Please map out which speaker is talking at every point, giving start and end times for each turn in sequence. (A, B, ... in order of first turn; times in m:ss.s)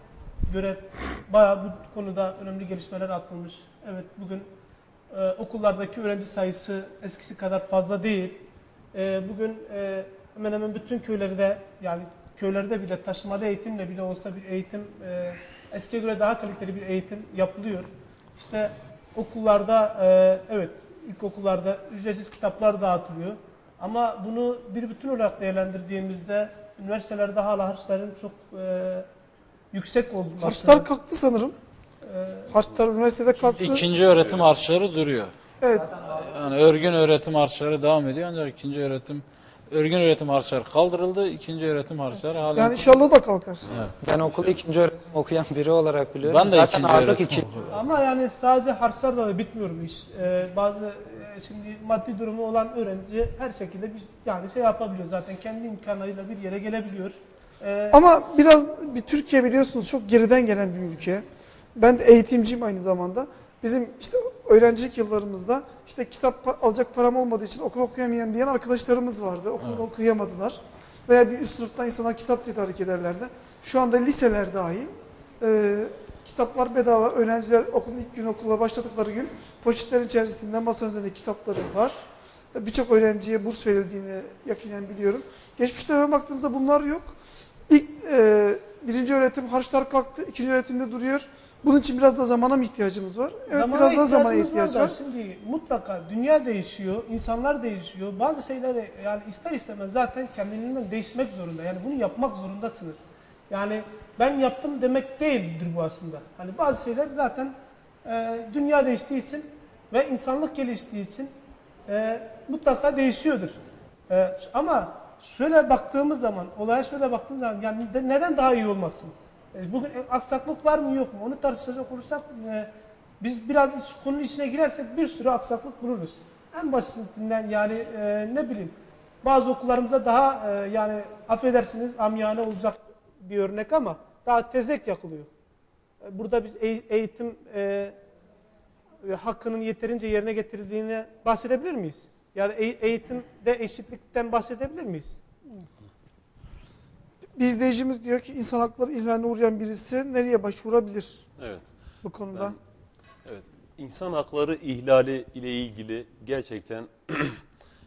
0:00.5-0:04.5 A
0:05.1-0:29.1 A
0:29.7-0:30.9 A
0:30.4-0:31.6 B
0:32.0-0:32.6 A
0:32.5-0:33.9 B
0:33.6-0:35.3 C
0:35.6-0:36.0 B
0:36.0-0:42.8 C
0:42.5-0:43.6 B
0:43.7-0:44.5 C
0:44.0-0:47.6 D
0:46.2-0:47.7 C
0:47.7-0:58.0 A
0:57.9-1:01.2 B
1:01.8-1:22.0 B
1:22.6-1:27.2 B
1:27.7-1:35.0 B
1:33.5-1:47.5 A
1:48.0-1:51.3 A
1:51.9-2:15.3 A
2:16.0-2:18.0 A
2:19.0-2:25.2 A
2:27.4-2:31.3 B
2:31.4-2:31.7 E
2:32.0-2:32.6 B
2:33.2-2:37.4 E